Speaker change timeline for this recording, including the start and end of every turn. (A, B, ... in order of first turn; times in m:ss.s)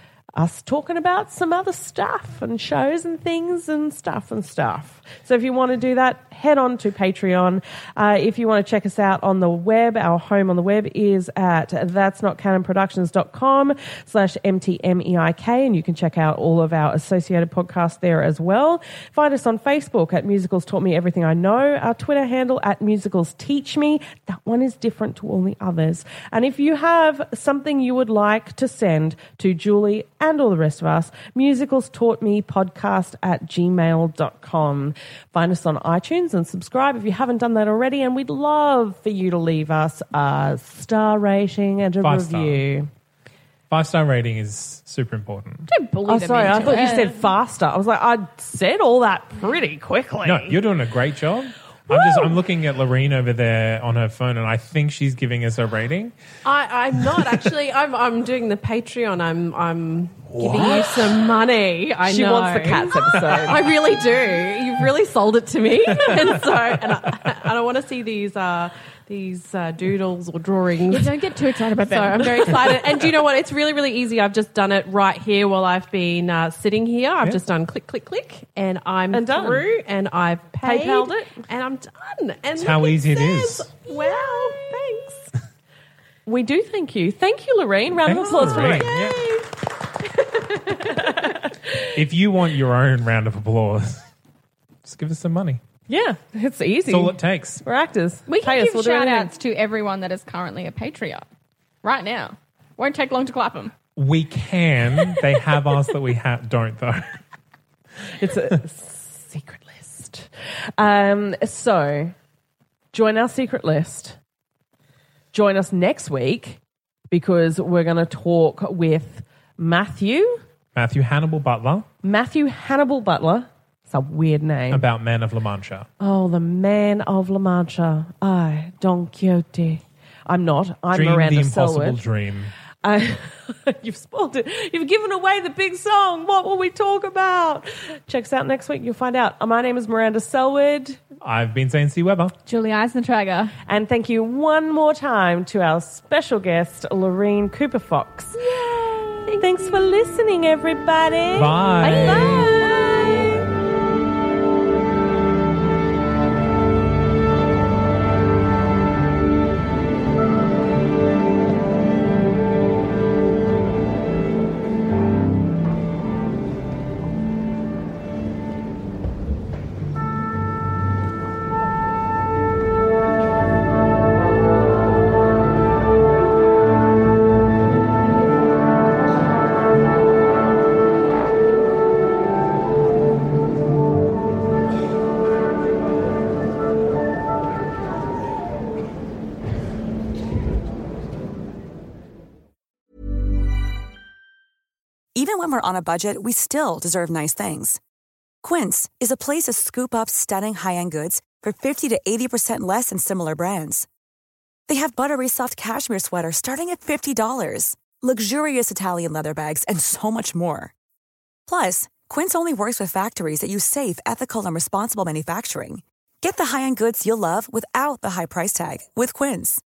0:00.4-0:42.9 A
0:42.0-0:42.6 B
0:43.7-0:45.7 B
0:45.7-0:47.3 C
0:46.1-0:50.6 A
0:50.2-0:56.2 B
0:56.4-1:11.1 D
0:57.2-0:57.4 B
1:00.3-1:01.0 B
1:02.0-1:03.8 A
1:05.9-1:06.4 B
1:10.9-1:12.7 C
1:11.8-1:25.3 D
1:19.1-1:19.7 A
1:20.6-1:21.4 A
1:22.6-1:23.7 B
1:26.3-1:29.2 A
1:28.0-1:29.3 B
1:30.4-1:31.2 D
1:30.7-1:31.9 A
1:31.9-1:34.1 B
1:34.8-1:35.6 B
1:35.9-1:39.3 A
1:36.9-1:37.6 B
1:38.3-1:41.3 C
1:41.8-1:43.7 C
1:44.0-1:47.2 B
1:48.2-1:52.1 A
1:52.9-1:54.2 A
1:55.3-2:00.4 A
2:00.7-2:01.9 B
2:02.0-2:04.9 A
2:04.7-2:05.9 B
2:06.0-2:12.0 A
2:10.9-2:12.5 B
2:12.8-2:21.0 A
2:21.2-2:22.4 B
2:22.4-2:23.6 C
2:23.6-2:28.6 A
2:28.4-2:29.7 C
2:29.3-2:33.3 A
2:31.3-2:32.5 B
2:31.8-2:33.5 C
3:15.2-3:17.8 E
3:18.4-3:23.9 E
3:24.7-3:30.7 E
3:31.5-3:39.6 E